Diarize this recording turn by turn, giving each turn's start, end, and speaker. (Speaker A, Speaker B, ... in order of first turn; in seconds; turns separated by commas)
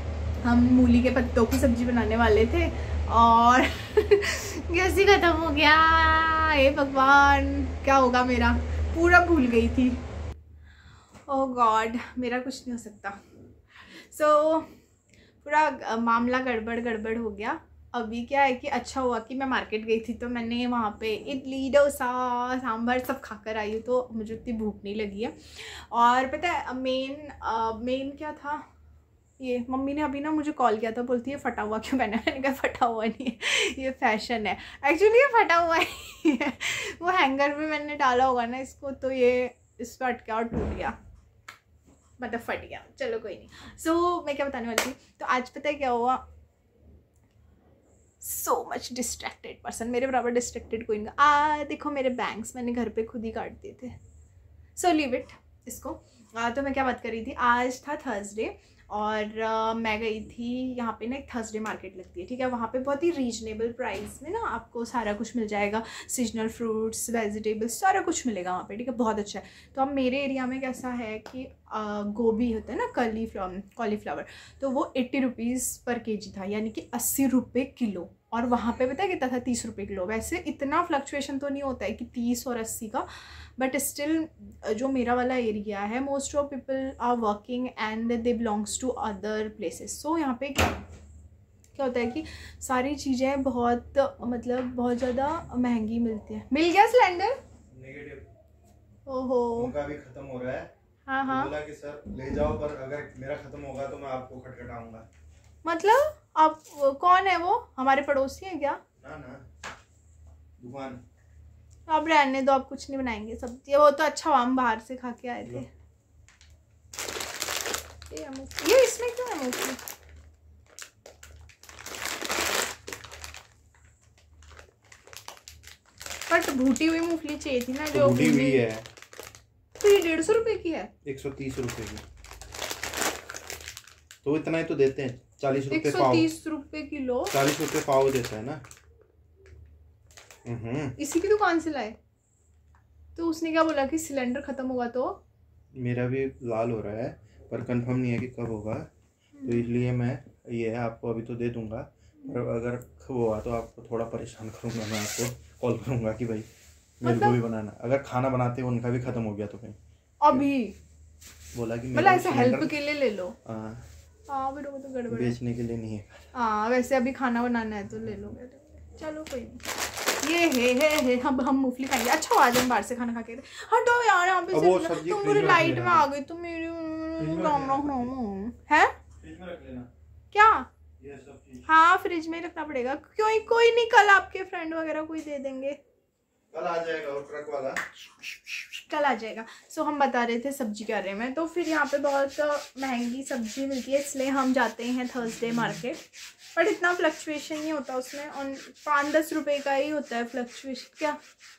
Speaker A: 0.4-10.0, Speaker A: 11.3-13.2, Speaker A: 13.9-14.7, Speaker A: 15.4-28.6, Speaker A: 29.4-41.0, Speaker A: 42.2-46.2, Speaker A: 48.2-54.0, Speaker A: 54.8-90.8, Speaker A: 91.8-97.4, Speaker B: 97.7-98.2, Speaker A: 99.1-99.7, Speaker B: 99.6-100.7, Speaker A: 101.1-101.5, Speaker B: 101.3-105.1, Speaker A: 105.6-108.8, Speaker B: 109.0-109.4, Speaker B: 110.6-111.0, Speaker A: 111.9-115.7, Speaker A: 118.1-119.8, Speaker A: 126.3-128.6, Speaker B: 127.9-128.9, Speaker A: 129.8-130.9, Speaker B: 131.1-132.0, Speaker B: 134.2-136.3, Speaker A: 135.7-137.3, Speaker B: 137.3-138.6, Speaker B: 140.4-141.0, Speaker A: 141.0-142.0, Speaker A: 143.2-145.2, Speaker B: 145.8-148.9, Speaker A: 149.4-149.7, Speaker B: 149.4-156.5, Speaker B: 157.0-159.8, Speaker A: 157.0-157.4, Speaker A: 160.2-160.8, Speaker B: 161.5-162.8, Speaker A: 161.9-163.4, Speaker B: 163.4-163.8, Speaker A: 164.3-165.4, Speaker B: 165.1-166.3, Speaker A: 166.3-178.9, Speaker B: 174.5-176.1, Speaker B: 177.2-178.1, Speaker B: 179.2-179.9, Speaker A: 180.3-180.7, Speaker B: 181.0-181.7, Speaker A: 181.7-185.8, Speaker B: 186.5-187.8, Speaker A: 188.9-196.0, Speaker A: 196.5-201.2